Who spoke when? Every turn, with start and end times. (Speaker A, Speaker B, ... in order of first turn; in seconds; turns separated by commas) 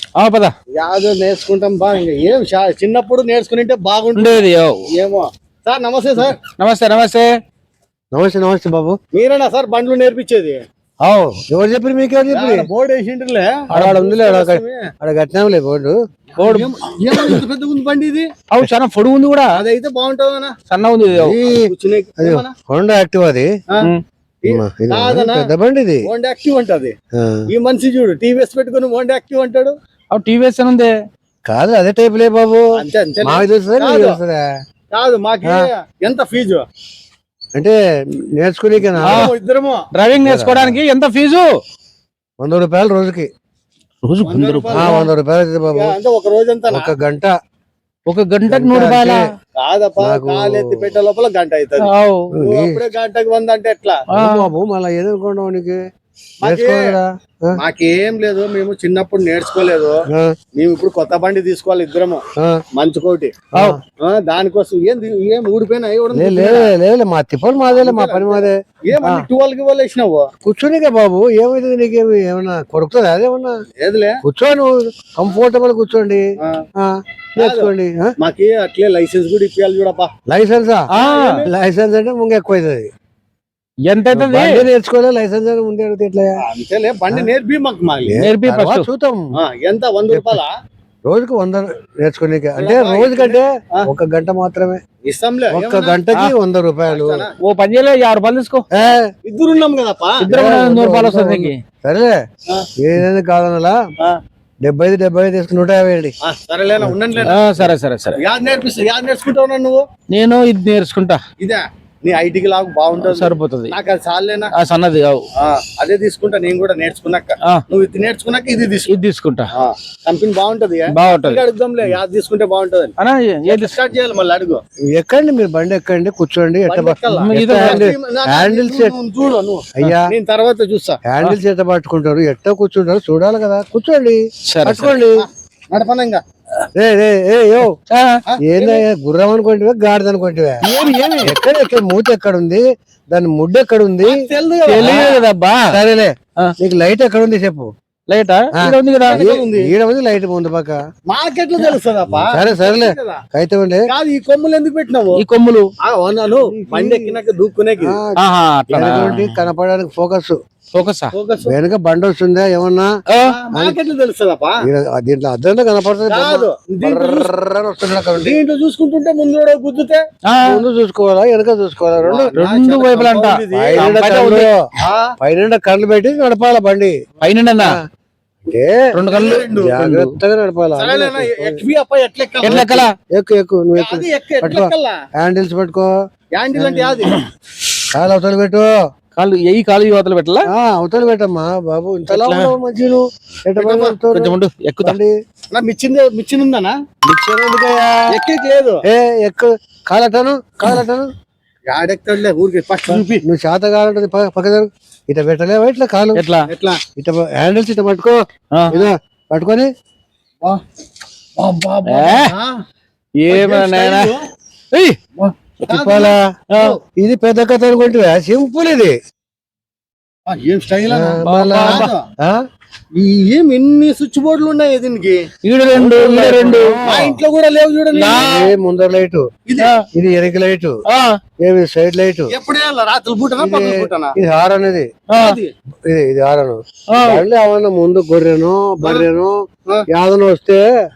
Speaker A: 0.2-0.5, Speaker B: 0.7-6.4, Speaker A: 4.2-4.8, Speaker A: 6.6-7.3, Speaker C: 8.1-9.0, Speaker B: 9.1-10.6, Speaker C: 11.0-12.7, Speaker B: 12.3-14.9, Speaker C: 13.7-16.0, Speaker A: 13.7-14.0, Speaker A: 16.4-17.3, Speaker B: 16.4-18.3, Speaker A: 18.5-19.6, Speaker B: 19.6-20.6, Speaker A: 20.7-21.4, Speaker C: 21.1-21.7, Speaker B: 21.5-22.5, Speaker C: 22.2-23.5, Speaker B: 24.4-25.5, Speaker C: 24.5-26.1, Speaker B: 26.0-26.9, Speaker C: 27.1-27.4, Speaker B: 27.5-29.7, Speaker A: 30.1-30.9, Speaker C: 31.5-32.7, Speaker B: 32.8-34.2, Speaker C: 33.2-34.4, Speaker B: 34.9-36.6, Speaker C: 38.4-39.3, Speaker B: 39.0-39.9, Speaker A: 39.1-39.3, Speaker A: 39.9-41.5, Speaker C: 40.2-40.8, Speaker C: 42.4-43.3, Speaker A: 44.0-45.0, Speaker B: 44.3-45.0, Speaker C: 44.7-45.9, Speaker B: 45.8-46.9, Speaker C: 46.7-47.3, Speaker A: 48.1-49.3, Speaker C: 48.5-49.2, Speaker B: 49.6-54.0, Speaker C: 50.0-50.8, Speaker A: 51.8-52.3, Speaker C: 52.3-52.8, Speaker A: 54.1-54.5, Speaker C: 54.1-55.8, Speaker B: 56.4-56.9, Speaker C: 56.4-57.5, Speaker B: 57.6-60.0, Speaker B: 60.6-62.2, Speaker B: 62.8-63.3, Speaker B: 64.0-66.7, Speaker C: 66.1-69.3, Speaker B: 67.7-70.3, Speaker C: 70.4-73.6, Speaker B: 73.8-74.2, Speaker C: 74.2-76.2, Speaker C: 76.8-78.1, Speaker B: 77.4-80.1, Speaker C: 80.3-80.9, Speaker A: 80.9-81.4, Speaker B: 81.0-81.5, Speaker C: 81.5-82.9, Speaker A: 83.9-84.7, Speaker C: 84.1-86.4, Speaker B: 86.4-88.2, Speaker C: 88.1-89.3, Speaker A: 88.2-88.9, Speaker B: 89.4-90.5, Speaker C: 90.1-90.4, Speaker C: 91.1-94.8, Speaker B: 92.6-93.9, Speaker B: 95.1-96.0, Speaker C: 95.5-97.2, Speaker B: 96.9-97.3, Speaker A: 97.4-98.7, Speaker C: 98.7-99.1, Speaker B: 99.2-100.2, Speaker C: 100.2-102.2, Speaker A: 100.3-101.6, Speaker C: 102.8-103.8, Speaker C: 104.6-106.1, Speaker B: 106.2-107.5, Speaker A: 107.3-108.2, Speaker B: 108.2-109.8, Speaker A: 110.1-111.2, Speaker B: 111.4-114.5, Speaker A: 113.0-113.7, Speaker A: 114.5-115.2, Speaker B: 115.4-119.0, Speaker A: 118.9-119.5, Speaker B: 119.5-122.9, Speaker A: 120.9-121.4, Speaker A: 123.0-123.7, Speaker B: 123.5-124.6, Speaker C: 125.0-129.0, Speaker B: 126.7-131.0, Speaker A: 127.1-127.9, Speaker C: 129.8-130.1, Speaker C: 131.1-135.3, Speaker A: 134.5-135.0, Speaker B: 135.2-136.2, Speaker C: 136.7-137.8, Speaker A: 137.9-138.2, Speaker B: 138.3-138.8, Speaker C: 138.5-140.6, Speaker A: 140.6-141.4, Speaker C: 141.2-144.2, Speaker B: 144.0-145.2, Speaker A: 144.7-145.8, Speaker C: 144.8-145.1, Speaker C: 145.7-147.7, Speaker A: 148.1-149.2, Speaker C: 148.6-150.8, Speaker B: 149.1-149.7, Speaker B: 151.1-153.2, Speaker C: 152.3-153.9, Speaker B: 153.9-155.2, Speaker A: 155.2-155.7, Speaker B: 155.8-158.0, Speaker C: 156.4-157.2, Speaker C: 157.8-158.2, Speaker A: 158.2-159.4, Speaker B: 158.7-159.1, Speaker C: 158.8-160.4, Speaker A: 160.7-161.1, Speaker B: 161.1-161.6, Speaker C: 161.5-162.9, Speaker A: 163.1-163.3, Speaker B: 163.3-164.6, Speaker C: 164.6-168.4, Speaker B: 166.1-167.3, Speaker B: 168.2-170.0, Speaker A: 170.3-170.7, Speaker C: 170.4-172.3, Speaker B: 172.0-173.9, Speaker A: 172.3-174.5, Speaker C: 173.5-174.7, Speaker B: 174.8-175.1, Speaker C: 175.2-176.9, Speaker A: 177.2-177.8, Speaker C: 178.5-178.9, Speaker A: 178.9-180.2, Speaker B: 179.1-179.8, Speaker C: 179.6-181.6, Speaker B: 180.8-182.8, Speaker A: 182.4-182.9, Speaker C: 182.4-185.9, Speaker B: 183.8-185.0, Speaker B: 186.3-187.2, Speaker C: 186.6-187.1, Speaker C: 187.9-188.7, Speaker A: 189.2-190.5, Speaker C: 190.5-195.1, Speaker A: 192.1-192.5, Speaker B: 193.6-194.0, Speaker A: 194.1-195.0, Speaker B: 195.5-196.8, Speaker C: 197.1-198.1, Speaker B: 198.1-198.8, Speaker C: 198.9-201.1, Speaker B: 201.7-203.2, Speaker C: 203.2-206.2, Speaker A: 206.2-206.5, Speaker B: 206.5-206.8, Speaker C: 207.0-208.2, Speaker C: 208.7-209.7, Speaker B: 211.4-212.6, Speaker A: 211.9-212.3, Speaker A: 213.2-214.1, Speaker B: 213.3-214.2, Speaker B: 215.2-216.8, Speaker C: 215.7-216.2, Speaker A: 216.5-216.8, Speaker C: 217.0-219.0, Speaker B: 220.3-222.0, Speaker C: 220.9-222.4, Speaker A: 221.2-221.9, Speaker B: 222.9-225.3, Speaker A: 225.4-227.1, Speaker C: 225.7-227.2, Speaker B: 226.8-228.5, Speaker A: 227.9-228.5, Speaker C: 228.1-229.2, Speaker B: 229.5-229.7, Speaker A: 229.6-229.8, Speaker C: 229.9-230.8, Speaker A: 230.9-231.2, Speaker C: 231.4-232.3, Speaker B: 232.3-234.2, Speaker C: 233.4-234.9, Speaker A: 235.1-235.4, Speaker B: 235.2-235.5, Speaker C: 235.9-239.4, Speaker A: 236.9-237.2, Speaker B: 238.8-239.1, Speaker C: 239.9-240.7